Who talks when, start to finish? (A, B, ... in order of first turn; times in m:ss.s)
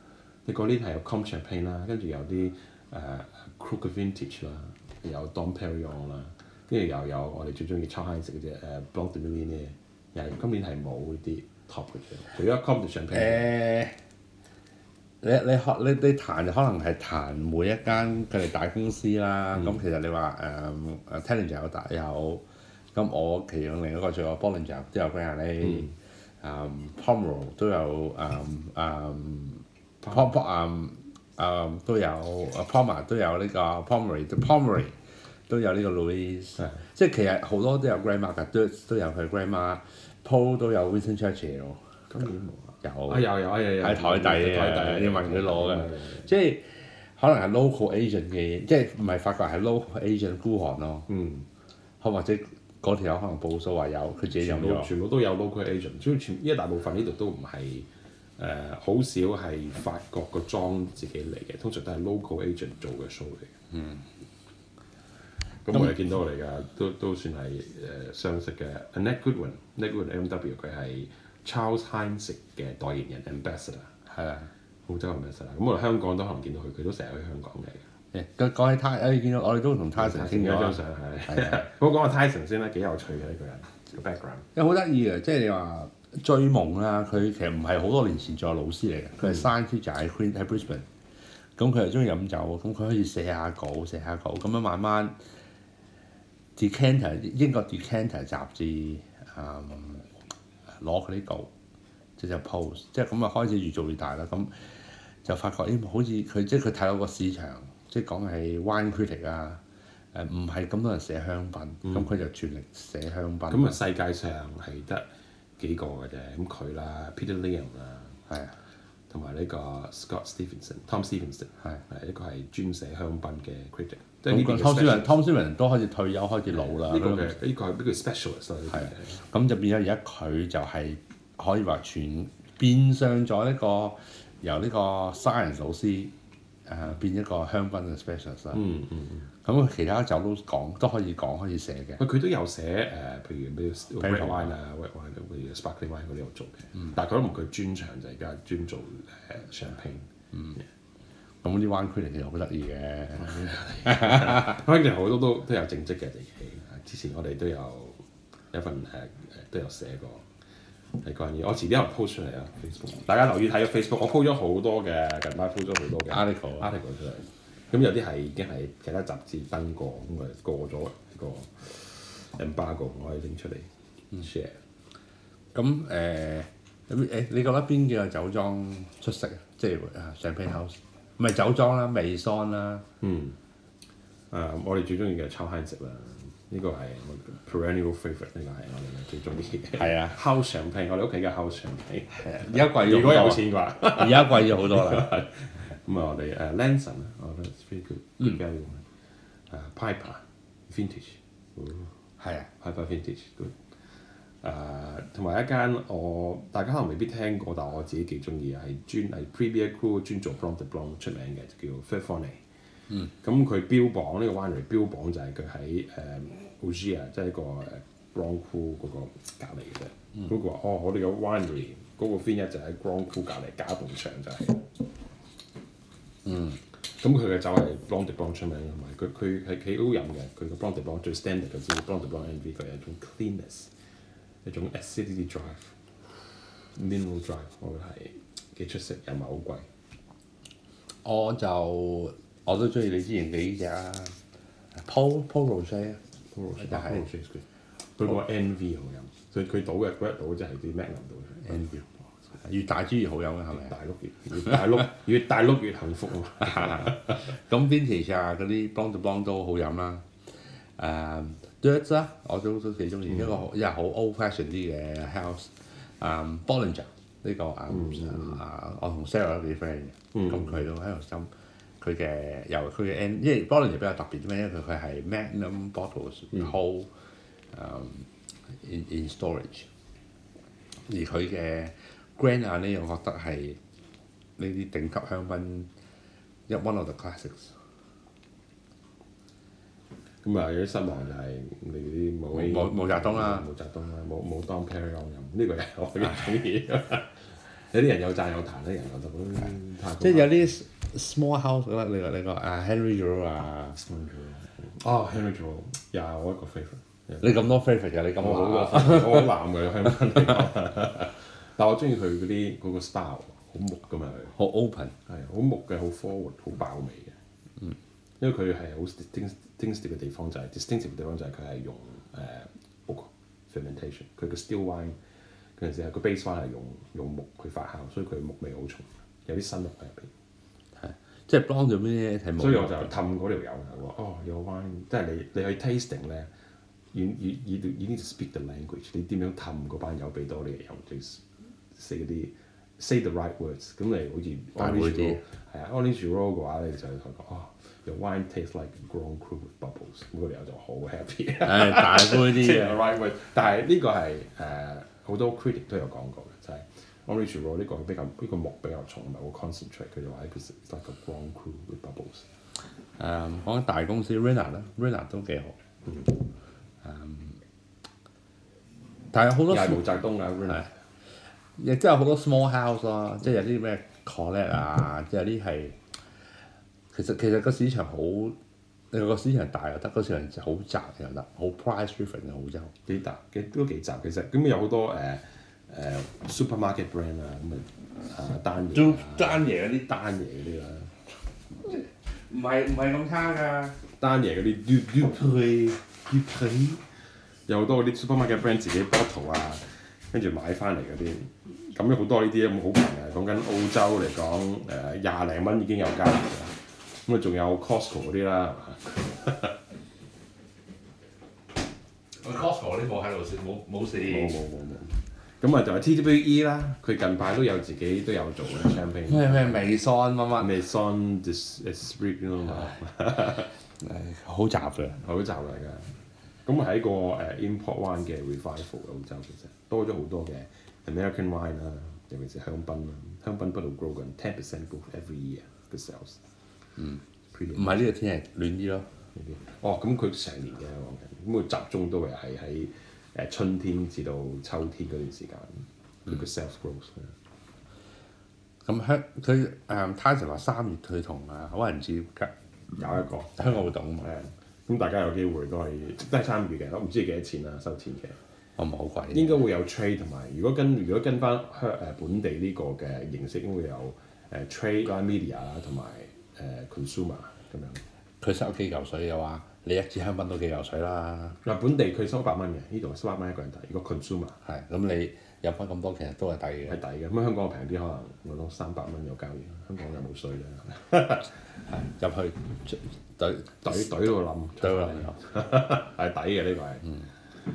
0:00.5-0:13.6 A
0:13.1-0:14.0 B
0:15.2-0:22.4 B
0:19.5-0:19.8 A
0:23.0-0:34.9 B
0:25.6-0:25.9 A
0:35.5-0:41.8 B
0:42.1-0:46.3 A
0:42.8-0:51.1 B
0:51.1-0:51.5 A
0:52.0-0:54.9 B
0:54.4-0:57.9 A
0:58.4-1:03.5 A
1:03.7-1:04.1 B
1:05.6-1:14.0 A
1:14.1-1:14.5 B
1:14.9-1:17.8 A
1:18.1-1:21.6 B
1:20.0-1:24.5 A
1:24.6-1:30.8 B
1:31.6-1:35.2 B
1:36.6-1:40.1 B
1:40.8-1:41.5 B
1:42.2-1:44.5 B
1:45.2-1:49.6 B
1:50.1-1:53.8 B
1:53.5-1:55.1 A
1:55.6-1:58.2 A
1:58.3-1:58.6 B
1:59.1-2:05.2 A
2:04.3-2:07.3 B
2:06.5-2:09.2 A
2:08.7-2:16.1 B
2:16.7-2:18.6 B
2:18.5-2:19.3 A
2:19.4-2:22.0 B
2:22.0-2:30.1 A
2:24.0-2:24.5 B
2:31.4-2:34.6 B
2:33.2-2:40.3 A
2:41.0-2:54.6 A
2:46.1-2:46.7 B
2:55.6-3:02.8 B
3:03.0-3:03.4 A
3:04.3-3:18.9 A
3:09.8-3:10.2 B
3:12.2-3:15.1 B
3:19.5-3:21.9 A
3:22.2-3:22.5 B
3:22.6-3:23.6 A
3:24.4-3:32.4 A
3:33.0-3:44.7 A
3:46.3-3:46.6 B
3:46.9-3:53.7 A
3:54.4-3:55.7 A
3:56.8-3:59.7 A
4:01.0-4:04.2 B
4:04.8-4:06.0 B
4:06.3-4:07.4 A
4:06.6-4:07.0 B
4:08.0-4:11.9 A
4:11.5-4:11.8 B
4:12.4-4:13.7 B
4:13.5-4:17.3 A
4:16.5-4:20.0 B
4:20.8-4:36.9 B
4:23.1-4:23.4 A
4:27.7-4:28.4 A
4:30.1-4:30.6 A
4:37.5-4:38.1 B
4:38.6-4:39.7 B
4:40.9-4:43.6 B
4:44.4-4:45.7 B
4:46.5-4:47.5 B
4:50.2-5:00.5 A
4:52.3-4:53.5 B
5:00.0-5:03.8 B
5:03.8-5:07.3 A
5:07.2-5:09.4 B
5:08.2-5:14.4 A
5:14.4-5:14.9 B
5:15.1-5:17.2 A
5:18.2-5:25.0 A
5:25.6-5:30.1 A
5:30.8-5:33.0 B
5:32.4-5:36.3 A
5:36.9-6:02.3 A
5:44.6-5:45.2 B
5:51.4-5:52.8 B
6:03.0-6:05.6 B
6:05.8-6:06.2 A
6:06.8-6:07.4 B
6:09.1-6:09.8 B
6:09.5-6:10.7 A
6:11.6-6:15.8 B
6:16.9-6:18.4 B
6:18.9-6:22.7 B
6:22.9-6:30.9 A
6:28.7-6:30.0 B
6:31.6-6:33.8 B
6:34.0-6:36.8 A
6:37.5-6:49.6 A
6:52.2-6:54.3 B
6:54.0-6:59.7 A
6:59.1-7:00.5 B
7:00.4-7:03.5 A
7:03.8-7:05.0 B
7:05.0-7:05.9 A
7:06.5-7:16.2 A
7:17.3-7:17.9 A
7:17.5-7:18.9 B
7:19.2-7:27.1 A
7:28.6-7:32.3 B
7:32.8-7:38.2 A
7:33.4-7:34.1 B
7:38.6-7:39.4 B
7:39.1-7:47.8 A
7:48.2-7:51.4 B
7:51.4-7:54.4 A
7:54.4-7:56.8 B
7:56.7-8:01.3 A
8:01.7-8:03.9 B
8:03.6-8:06.9 A
8:04.6-8:05.2 B